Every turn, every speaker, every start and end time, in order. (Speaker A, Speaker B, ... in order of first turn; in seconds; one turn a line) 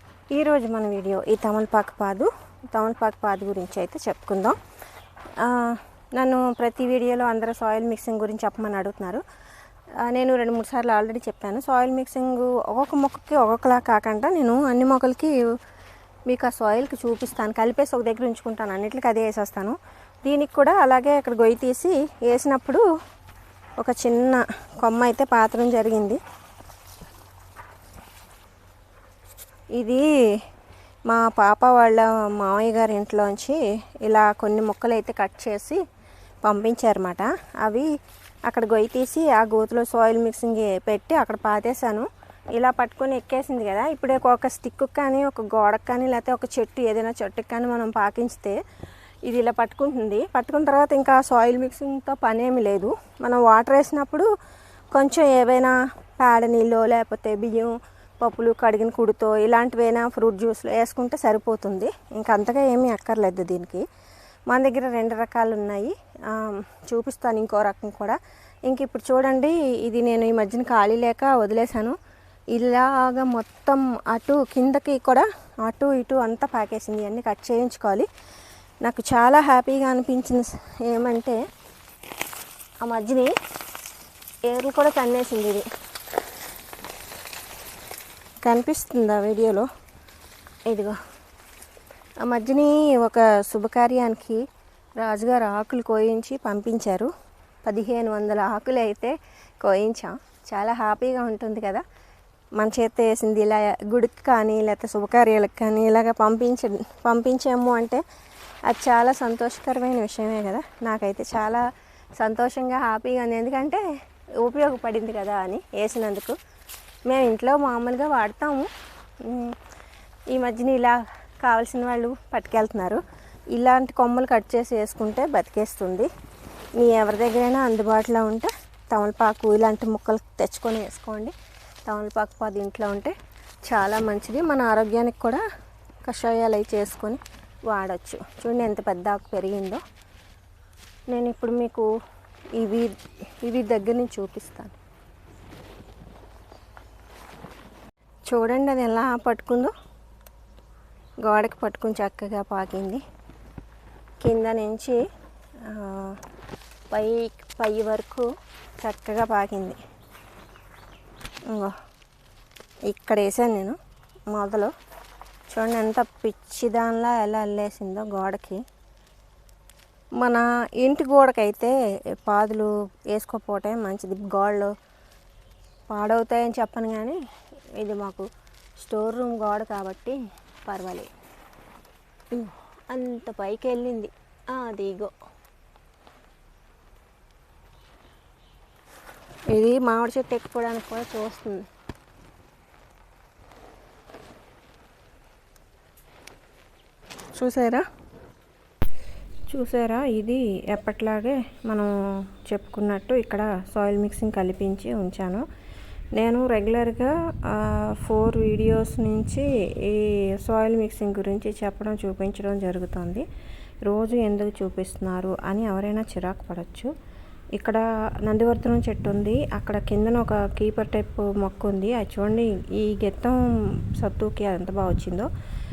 Speaker A: 0.3-4.6
Speaker A: 5.4-9.2
Speaker A: 10.0-15.4
Speaker A: 16.3-22.8
Speaker A: 23.8-26.2
Speaker A: 29.8-30.1
Speaker A: 31.1-35.8
Speaker A: 36.4-37.9
Speaker A: 38.5-48.6
Speaker A: 49.2-54.3
Speaker A: 54.9-63.9
Speaker A: 64.5-72.0
Speaker A: 72.5-78.1
Speaker A: 78.8-81.4
Speaker A: 82.8-83.3
Speaker A: 84.5-85.7
Speaker A: 88.4-89.7
Speaker A: 90.7-91.0
Speaker A: 92.2-94.4
Speaker A: 95.0-97.1
Speaker A: 97.7-101.8
Speaker A: 102.6-108.0
Speaker A: 108.7-111.7
Speaker A: 112.2-113.8
Speaker A: 114.4-116.4
Speaker A: 117.1-118.7
Speaker A: 119.2-119.6
Speaker A: 120.3-123.0
Speaker A: 123.5-126.1
Speaker A: 126.8-131.3
Speaker A: 131.9-135.4
Speaker A: 136.1-139.8
Speaker A: 141.1-141.9
Speaker A: 142.6-142.9
Speaker A: 143.4-144.8
Speaker A: 148.3-149.7
Speaker A: 151.2-153.0
Speaker A: 154.2-155.0
Speaker A: 155.6-156.2
Speaker A: 156.9-159.8
Speaker A: 161.5-161.8
Speaker A: 162.9-163.8
Speaker A: 164.3-164.7
Speaker A: 165.5-168.6
Speaker A: 170.2-174.7
Speaker A: 175.9-177.2
Speaker A: 177.8-181.1
Speaker A: 182.3-185.1
Speaker A: 189.5-191.7
Speaker A: 197.3-197.8
Speaker A: 199.5-205.4
Speaker A: 206.2-213.3
Speaker A: 213.8-216.9
Speaker A: 217.6-225.3